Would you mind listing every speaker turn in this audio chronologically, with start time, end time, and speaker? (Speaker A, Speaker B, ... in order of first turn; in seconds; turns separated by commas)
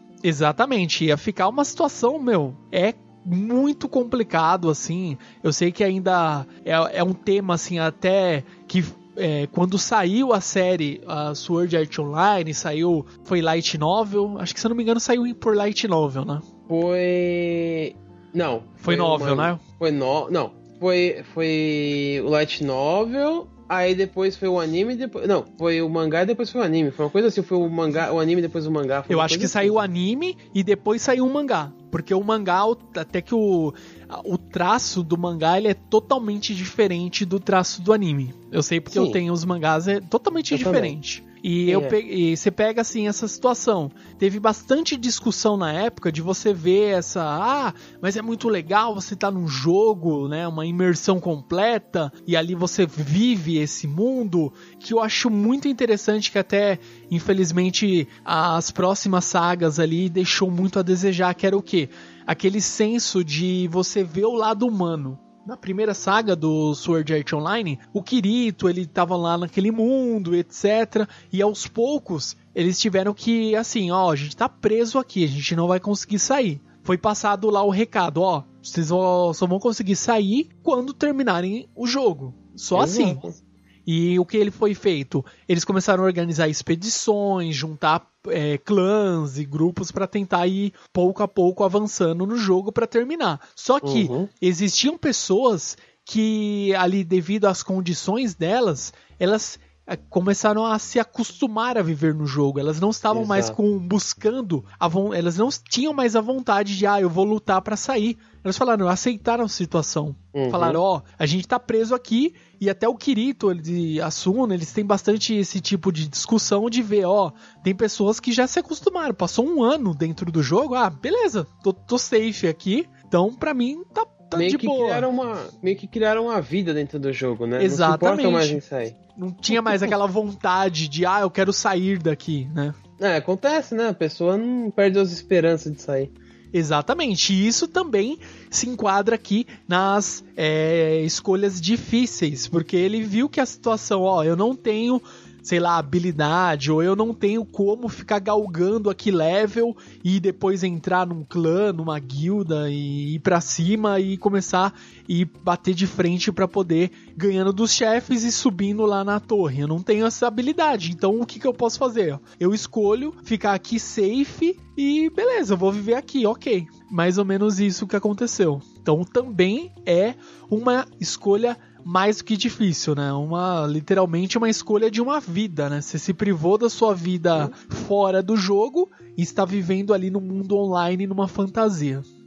Speaker A: 0.2-16.5, Speaker B: 16.7-29.8, Speaker A: 18.8-19.6, Speaker A: 29.1-83.2, Speaker B: 38.9-39.2, Speaker B: 40.5-41.0, Speaker B: 41.7-42.0, Speaker B: 82.8-83.4, Speaker A: 83.9-125.1, Speaker B: 93.8-94.3, Speaker B: 103.1-103.6, Speaker B: 110.3-110.8, Speaker B: 124.4-129.9, Speaker A: 127.6-128.6, Speaker A: 129.2-132.8, Speaker B: 133.0-136.1, Speaker A: 136.5-182.1